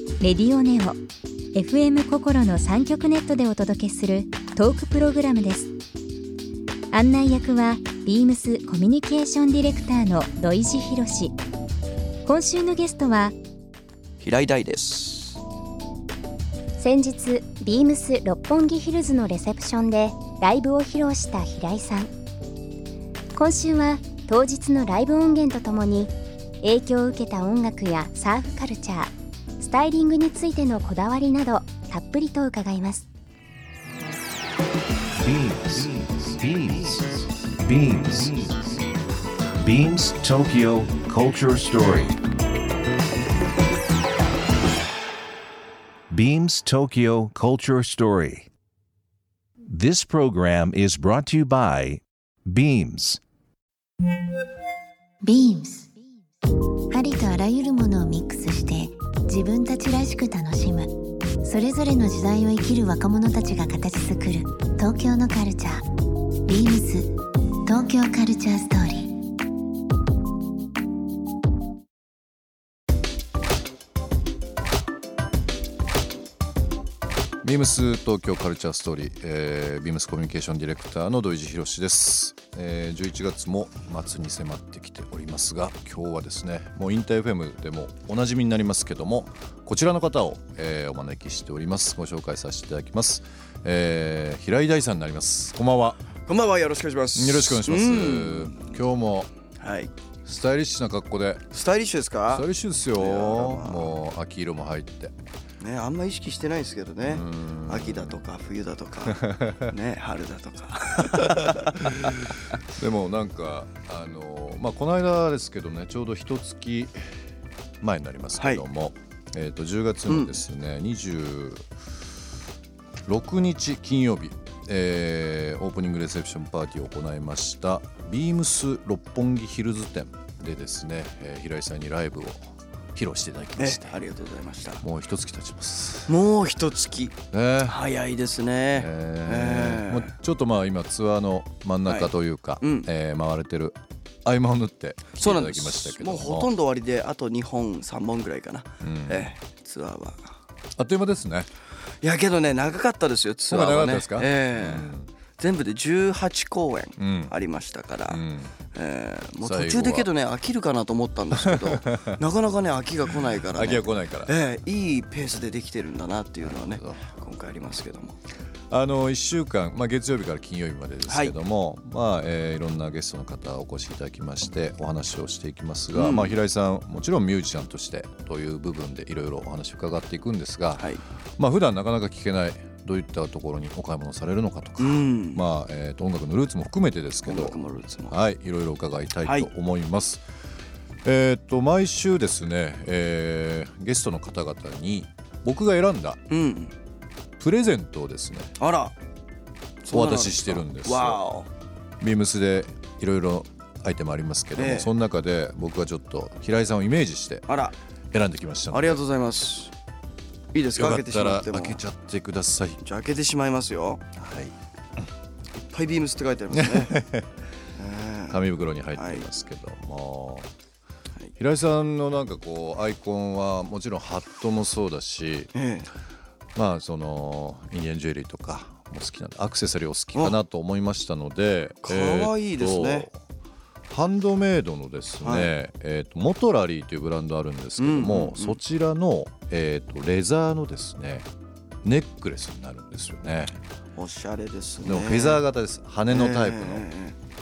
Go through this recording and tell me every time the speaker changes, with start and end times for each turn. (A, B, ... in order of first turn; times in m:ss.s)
0:00.2-0:01.0 A
0:01.5-0:05.7 A
0:06.9-0:11.3 A
0:12.2-0:13.3 A
0:14.2-0:15.4 B
0:16.8-0:22.1 A
0:23.3-0:33.1 A
0:35.2-0:38.8 C
0:39.6-0:42.2 C
0:46.1-0:48.5 C
0:49.7-0:53.2 C
0:55.2-0:55.9 D
0:56.9-1:00.9 D
1:01.4-1:05.8 D
1:06.4-1:07.1 D
1:07.6-1:09.1 D
1:17.4-1:36.0 E
1:36.3-1:38.8 B
1:37.2-1:39.3 E
1:39.6-1:39.9 B
1:40.2-1:41.4 E
1:41.5-1:43.9 B
1:42.3-1:45.1 E
1:45.6-1:51.8 B
1:47.0-1:48.2 E
1:49.1-1:49.7 E
1:51.1-1:52.1 E
1:52.7-1:57.0 E
1:57.8-2:01.6 E
1:58.3-1:58.6 B
2:00.1-2:00.4 B
2:03.0-2:14.0 E
2:13.6-2:14.8 B
2:14.8-2:16.1 E
2:16.1-2:20.1 B
2:17.3-2:17.8 E
2:18.7-2:26.5 E
2:21.8-2:22.9 B
2:25.1-2:30.3 B
2:28.8-2:29.3 E
2:30.8-2:31.5 E
2:32.0-2:48.2 B
2:33.5-2:35.1 E
2:37.0-2:37.3 E
2:38.1-2:38.5 E
2:39.4-2:40.1 E
2:41.3-2:42.2 E
2:43.5-2:44.3 E
2:46.4-2:47.1 E
2:48.7-3:07.6 E
2:51.0-2:51.3 B
2:55.9-2:56.4 B
3:00.7-3:01.0 B
3:04.8-3:05.4 B
3:07.2-3:08.2 B
3:08.1-3:10.2 E
3:09.2-3:09.5 B
3:11.0-3:16.2 E
3:16.3-3:16.7 B
3:17.4-3:18.5 E
3:18.6-3:18.9 B
3:19.8-3:21.5 B
3:19.9-3:21.2 E
3:22.0-3:27.5 E
3:24.6-3:24.9 B
3:27.5-3:27.7 B
3:28.1-3:29.0 E
3:28.7-3:29.7 B
3:30.5-3:31.8 B
3:30.7-3:32.8 E
3:32.8-3:34.0 B
3:34.2-3:34.5 E
3:35.7-3:37.0 B
3:36.5-3:37.2 E
3:37.8-3:38.4 B
3:38.3-3:40.5 E
3:38.9-3:39.3 B
3:41.4-3:45.5 E
3:45.5-3:45.9 B
3:46.6-3:53.2 E
3:51.8-3:53.1 B
3:53.9-4:01.3 E
3:55.2-3:55.5 B
3:57.8-3:58.6 B
4:01.8-4:03.6 E
4:04.0-4:05.4 B
4:04.8-4:06.8 E
4:06.1-4:07.2 B